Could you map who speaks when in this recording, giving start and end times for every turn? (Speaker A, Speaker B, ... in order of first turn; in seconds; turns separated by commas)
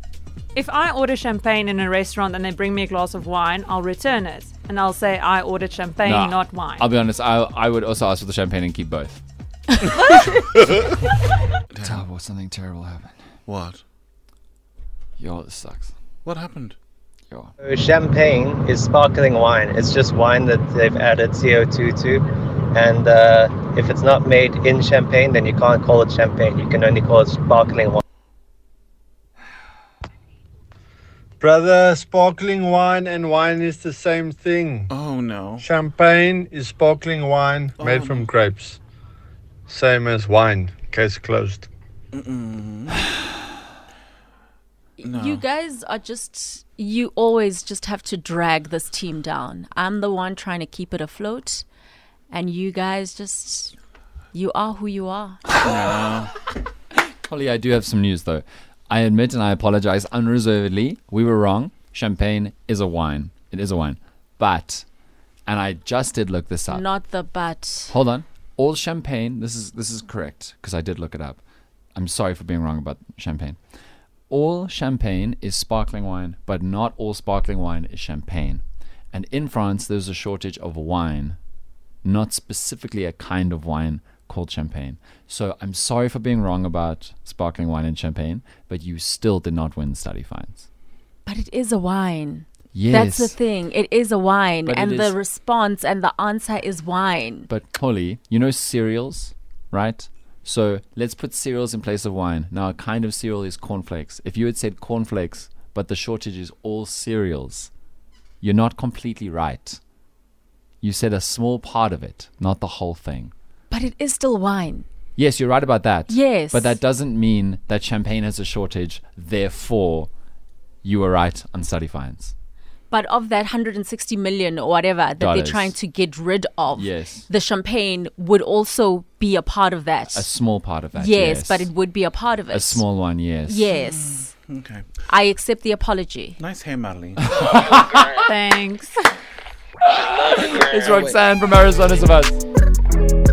Speaker A: 0.5-6.9, Speaker B: 6.0-9.2, Speaker C: 11.7-12.0, Speaker B: 11.8-13.1, Speaker C: 13.4-13.8, Speaker B: 15.2-15.9, Speaker C: 16.2-16.8, Speaker D: 17.6-28.0, Speaker E: 31.4-34.9, Speaker C: 34.9-35.6, Speaker E: 35.6-38.8, Speaker C: 37.8-38.3, Speaker E: 39.7-41.7, Speaker C: 42.1-43.1, Speaker F: 45.0-51.6, Speaker C: 45.0-45.4, Speaker F: 52.3-53.7, Speaker F: 54.3-55.4, Speaker C: 55.6-56.3, Speaker B: 57.2-64.8, Speaker B: 65.5-66.9, Speaker F: 66.7-67.9, Speaker B: 67.9-71.4, Speaker B: 71.9-73.6, Speaker B: 74.3-81.4, Speaker B: 82.0-90.7, Speaker F: 91.2-97.5, Speaker B: 92.7-93.4, Speaker B: 94.6-95.2, Speaker B: 97.5-107.7, Speaker B: 108.4-109.8, Speaker B: 110.8-113.3, Speaker F: 113.7-114.8, Speaker B: 115.2-120.1, Speaker F: 116.1-116.8, Speaker B: 120.8-122.3, Speaker F: 122.9-130.3, Speaker B: 125.2-125.8, Speaker B: 126.7-127.3, Speaker B: 130.1-131.7, Speaker F: 130.9-132.8, Speaker B: 132.5-133.7, Speaker F: 133.5-134.3, Speaker C: 133.7-134.8, Speaker F: 135.1-136.4, Speaker C: 136.4-137.4, Speaker B: 137.3-138.3, Speaker A: 138.1-139.0, Speaker B: 139.8-142.4